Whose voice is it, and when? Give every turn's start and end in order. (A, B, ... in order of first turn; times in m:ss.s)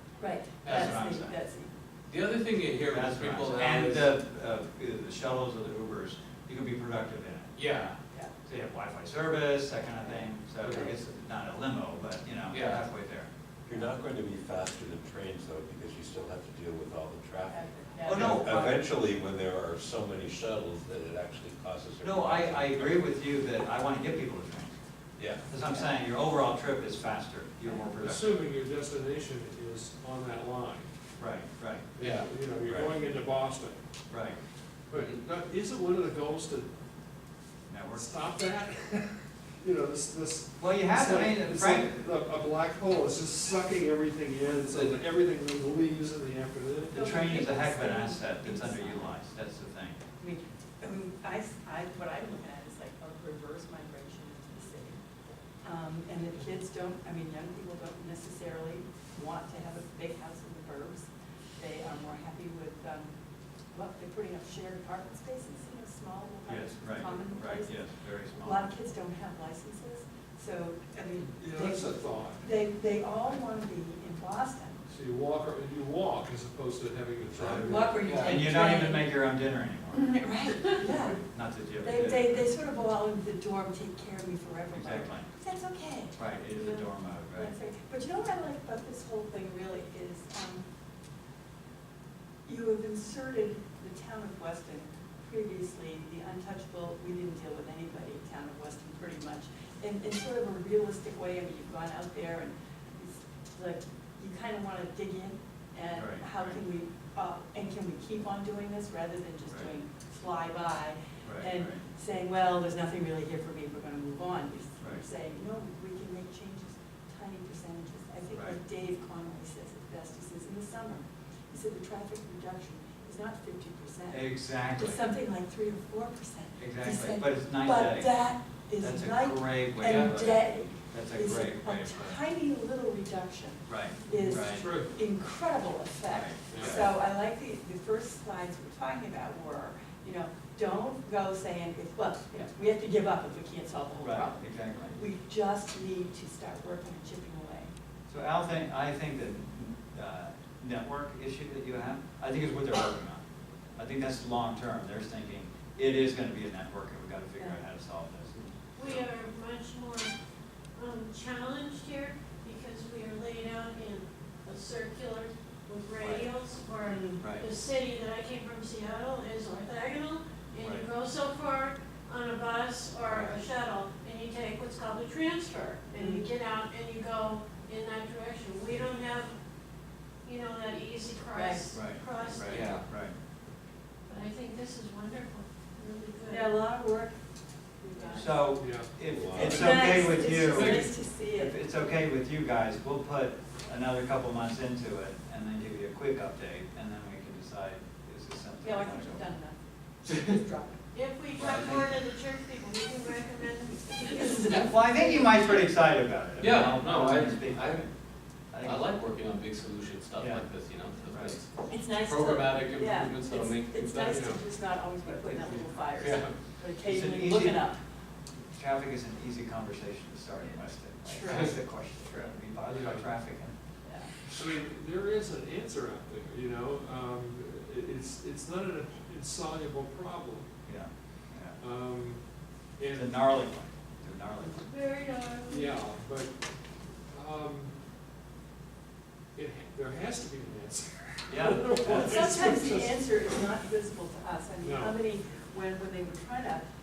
0:00.2-0:01.7 A
0:00.6-0:00.9 B
0:00.6-0:01.4 C
0:02.1-0:04.1 B
0:02.9-0:13.3 C
0:07.6-0:07.9 B
0:10.0-0:10.9 A
0:12.5-0:12.8 B
0:13.7-0:17.6 D
0:17.5-0:18.4 A
0:18.0-0:18.8 C
0:18.2-0:22.9 D
0:22.0-0:24.7 C
0:25.5-0:28.4 C
0:27.9-0:30.9 E
0:31.2-0:31.9 C
0:32.0-0:33.8 E
0:32.0-0:32.3 B
0:32.7-0:32.9 C
0:34.1-0:34.4 C
0:34.9-0:36.7 E
0:34.9-0:35.2 B
0:37.7-0:38.1 C
0:37.9-0:47.0 E
0:40.6-0:42.0 C
0:46.9-0:49.2 A
0:46.9-0:50.0 C
0:50.2-0:55.0 A
0:55.6-1:03.1 A
1:03.7-1:07.8 A
1:06.5-1:08.7 C
1:08.3-1:14.8 A
1:11.3-1:12.4 E
1:14.9-1:18.1 E
1:17.4-1:22.5 C
1:17.5-1:19.2 A
1:18.0-1:18.3 B
1:19.9-1:21.2 A
1:21.8-1:26.2 A
1:24.7-1:25.3 C
1:26.2-1:27.5 C
1:26.5-1:26.9 F
1:27.3-1:30.6 A
1:32.4-2:27.7 A
1:45.9-1:46.6 C
1:51.2-1:51.8 C
1:58.3-1:58.6 C
2:04.1-2:05.0 C
2:06.6-2:08.3 C
2:08.8-2:12.2 C
2:09.9-2:10.1 B
2:13.7-2:14.7 C
2:14.2-2:14.9 E
2:16.1-2:16.9 C
2:16.5-2:16.8 E
2:24.0-2:25.0 C
2:28.1-2:33.2 C
2:33.8-2:39.1 C
2:38.8-2:40.1 F
2:40.8-2:59.3 F
2:46.0-2:46.3 C
2:46.8-2:47.2 A
2:47.2-2:47.4 C
2:50.6-2:50.9 C
2:53.1-2:53.4 C
2:55.9-2:56.3 A
3:00.2-3:02.7 F
3:01.3-3:01.6 A
3:01.7-3:03.1 C
3:02.5-3:02.8 B
3:04.1-3:06.5 F
3:06.2-3:07.2 A
3:07.8-3:08.4 A
3:08.1-3:19.3 C
3:08.6-3:08.9 E
3:09.1-3:09.6 D
3:09.3-3:11.6 A
3:10.5-3:10.8 E
3:18.6-3:20.8 A
3:20.1-3:20.3 C
3:20.9-3:24.6 F
3:21.3-3:22.0 C
3:24.0-3:25.2 A
3:24.5-3:27.9 C
3:26.4-3:27.9 B
3:28.5-3:28.8 C
3:28.6-3:34.4 B
3:30.2-3:30.4 C
3:31.1-3:31.4 C
3:31.7-3:37.8 A
3:35.1-3:35.8 C
3:36.0-3:36.4 B
3:36.8-3:37.7 C
3:38.5-3:43.5 C
3:41.1-3:41.5 A
3:42.7-3:43.1 E
3:43.8-3:44.1 A
3:44.3-3:50.5 E
3:50.7-3:51.6 C
3:51.6-3:53.1 E
3:52.9-3:54.7 C
3:54.6-3:55.7 F
3:55.4-3:56.4 E
3:57.1-3:57.8 E
3:59.3-4:03.2 E
4:01.3-4:02.2 C
4:01.8-4:06.6 A
4:04.6-4:05.0 E